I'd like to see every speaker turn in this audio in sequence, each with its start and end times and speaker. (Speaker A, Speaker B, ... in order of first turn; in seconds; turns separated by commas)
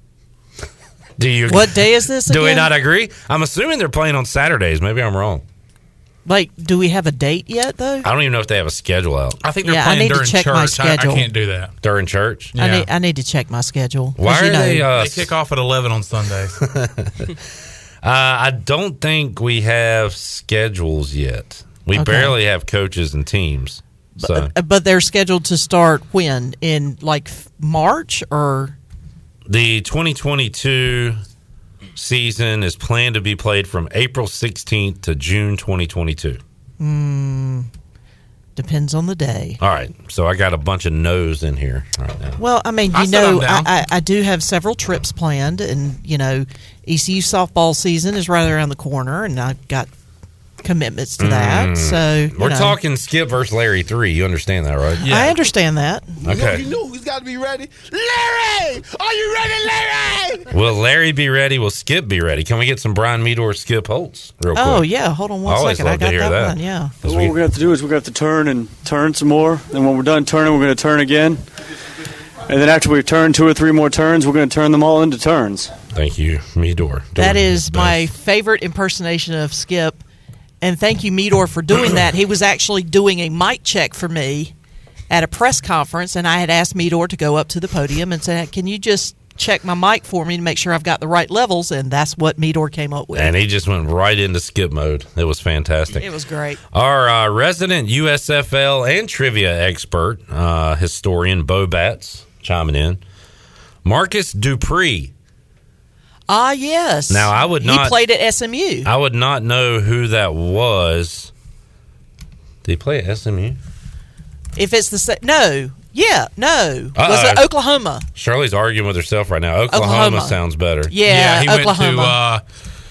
Speaker A: 1.2-5.4, Speaker B: 1.5-2.7, Speaker B: 6.2-8.1, Speaker A: 8.0-9.4, Speaker C: 9.4-11.7, Speaker B: 9.6-11.3, Speaker A: 11.8-12.5, Speaker C: 12.6-12.9, Speaker B: 12.6-14.8, Speaker A: 14.2-15.3, Speaker C: 14.9-16.6, Speaker A: 16.6-17.3, Speaker A: 18.0-24.5, Speaker B: 21.9-22.4, Speaker B: 24.2-28.7, Speaker A: 29.5-31.2, Speaker A: 31.9-36.4, Speaker B: 36.8-37.7, Speaker B: 38.5-39.6, Speaker A: 39.6-42.4, Speaker B: 42.4-49.9, Speaker C: 42.9-43.7, Speaker B: 50.6-52.8, Speaker A: 51.2-55.2, Speaker B: 55.0-56.1, Speaker C: 55.0-55.3, Speaker D: 56.2-60.5, Speaker A: 56.2-56.6, Speaker A: 60.5-64.9, Speaker B: 64.5-66.9, Speaker A: 65.4-67.3, Speaker E: 67.0-71.4, Speaker E: 72.5-75.7, Speaker A: 75.9-78.0, Speaker B: 77.2-80.0, Speaker B: 80.6-84.5, Speaker B: 85.1-93.3, Speaker A: 93.1-96.0, Speaker B: 96.0-96.6, Speaker A: 96.7-103.0, Speaker A: 103.8-105.1, Speaker B: 106.3-108.9, Speaker A: 107.1-108.0, Speaker A: 108.8-111.3, Speaker A: 112.6-113.6, Speaker B: 114.5-118.0, Speaker A: 117.0-117.5, Speaker A: 118.1-120.9, Speaker B: 119.7-122.2, Speaker C: 121.0-122.4